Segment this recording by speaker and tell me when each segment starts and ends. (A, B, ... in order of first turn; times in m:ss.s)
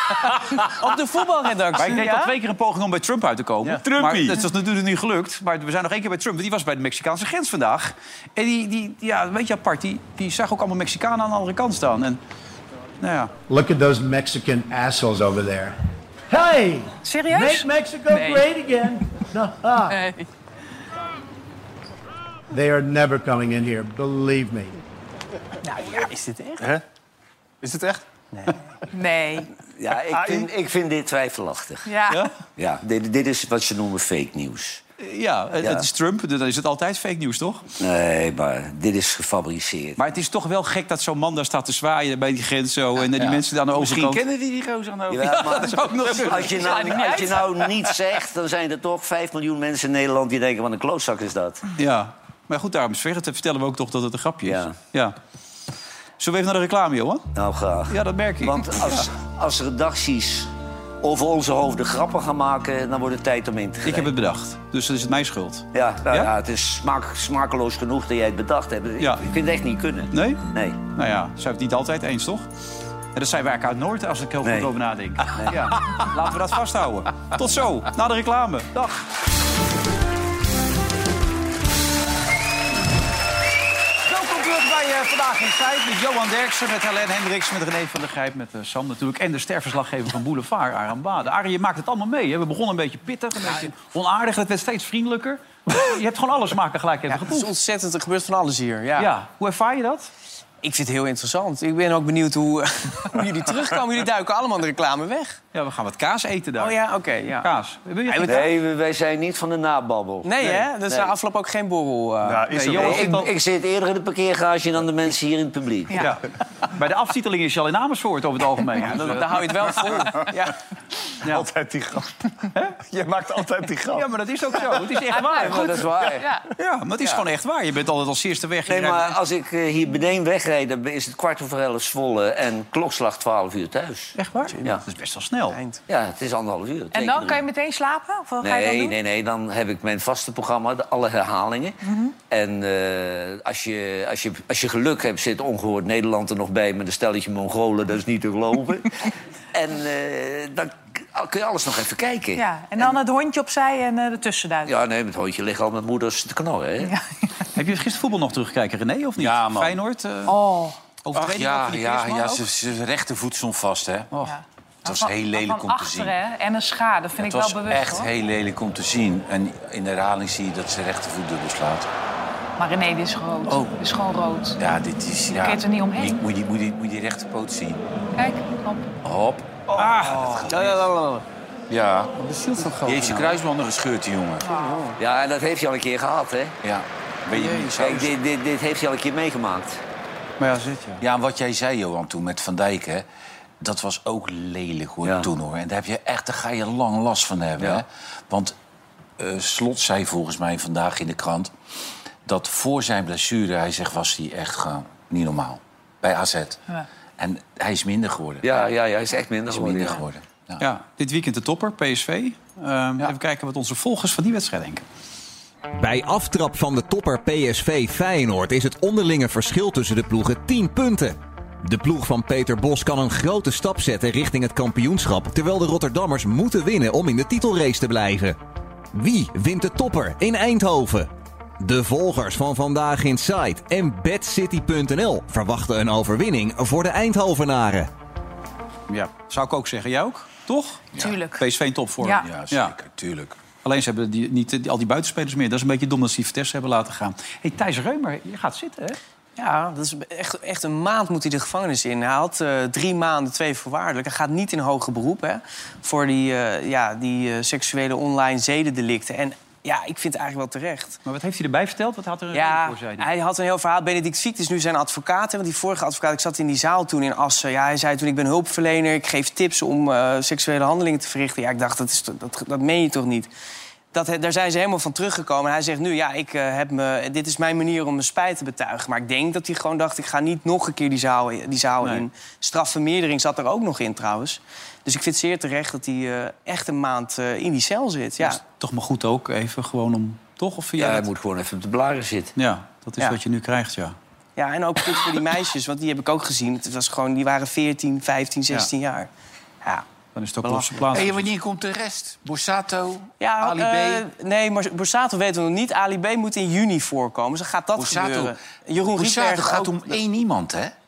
0:00.8-0:02.3 A
0:01.7-0:12.2 B
0:03.8-0:04.4 C
0:13.0-0:13.3 B
0:13.5-0:15.7 D
0:16.3-0:19.9 D
0:17.0-0:18.5 E
0:19.8-0:20.3 E
0:22.5-0:24.8 D
0:25.6-0:26.6 A
0:27.6-0:28.0 F
0:28.3-0:28.6 A
0:28.9-0:29.5 E
0:29.8-0:31.9 G
0:30.1-0:30.5 F
0:31.8-0:32.3 E
0:32.6-0:34.8 G
0:35.0-0:37.6 B
0:35.6-0:35.9 G
0:37.8-0:40.0 G
0:40.0-0:44.2 B
0:43.2-0:46.5 C
0:45.1-0:51.7 G
0:45.3-0:46.8 B
0:46.6-0:47.6 E
0:51.8-0:55.1 B
0:54.4-0:54.8 G
0:56.2-0:57.2 B
0:57.3-1:00.5 G
0:57.9-0:59.1 B
1:01.0-1:04.1 G
1:03.8-1:06.3 B
1:05.7-1:10.8 G
1:10.1-1:12.5 B
1:13.1-1:19.0 B
1:14.4-1:14.7 G
1:15.3-1:15.7 G
1:24.0-1:37.5 B
1:37.1-1:39.1 A
1:39.0-1:40.1 B
1:40.6-1:45.4 A
1:45.5-1:46.8 B
1:46.6-1:47.5 A
1:47.4-1:48.4 B
1:48.1-1:48.4 A
1:48.2-1:51.1 G
1:50.2-1:53.2 A
1:52.2-1:53.2 F
1:52.5-1:53.3 B
1:52.8-1:55.9 G
1:56.0-1:59.5 B
1:58.8-2:00.6 A
2:01.2-2:01.5 B
2:01.2-2:05.0 F
2:02.5-2:02.8 B
2:03.9-2:05.9 B
2:05.1-2:06.4 E
2:05.4-2:06.2 G
2:06.5-2:09.2 B
2:08.6-2:14.8 G
2:14.2-2:15.6 B
2:14.5-2:14.8 A
2:15.5-2:15.8 A
2:15.9-2:17.4 G
2:16.9-2:19.0 E
2:18.4-2:32.9 G
2:21.8-2:22.1 E
2:32.4-2:34.7 E
2:34.6-2:36.9 G
2:37.5-2:40.4 B
2:39.2-2:39.8 C
2:40.3-2:40.8 E
2:41.0-2:42.4 B
2:41.1-2:44.1 C
2:44.2-2:48.1 E
2:44.8-2:46.1 C
2:47.2-2:51.9 C
2:52.6-2:54.6 E
2:53.5-2:53.7 C
2:54.6-2:57.8 C
2:55.3-2:56.2 E
2:58.2-2:58.9 E
2:59.0-2:59.6 C
2:59.7-3:00.4 F
2:59.7-3:00.5 B
3:00.2-3:00.8 C
3:00.5-3:01.2 A
3:01.7-3:02.1 C
3:02.2-3:03.4 B
3:02.8-3:04.5 C
3:04.4-3:04.8 E
3:04.5-3:05.0 A
3:05.0-3:06.6 G
3:06.6-3:08.1 C
3:07.4-3:07.7 B
3:07.8-3:09.8 G
3:10.4-3:11.0 B
3:11.0-3:13.0 C
3:13.6-3:18.5 C
3:15.0-3:15.3 G
3:19.2-3:21.5 C
3:22.2-3:26.6 C
3:27.2-3:28.4 C
3:28.4-3:30.0 G
3:29.5-3:30.7 C
3:30.6-3:34.8 B
3:35.8-3:48.4 H
3:48.9-3:51.1 H
3:51.6-3:57.9 H
3:58.9-4:02.8 B
4:01.0-4:01.4 E
4:02.0-4:02.3 E
4:02.2-4:03.4 C
4:03.6-4:09.0 B
4:09.4-4:21.0 A
4:21.0-4:23.1 B
4:22.3-4:33.3 A
4:33.9-4:48.4 A
4:41.8-4:42.1 B
4:48.2-4:51.1 B
4:50.8-4:52.3 G
4:52.4-4:54.0 B
4:54.4-4:59.1 A
5:00.1-5:01.2 B
5:00.4-5:00.7 A
5:00.9-5:04.0 C
5:03.2-5:10.0 A
5:07.7-5:10.7 C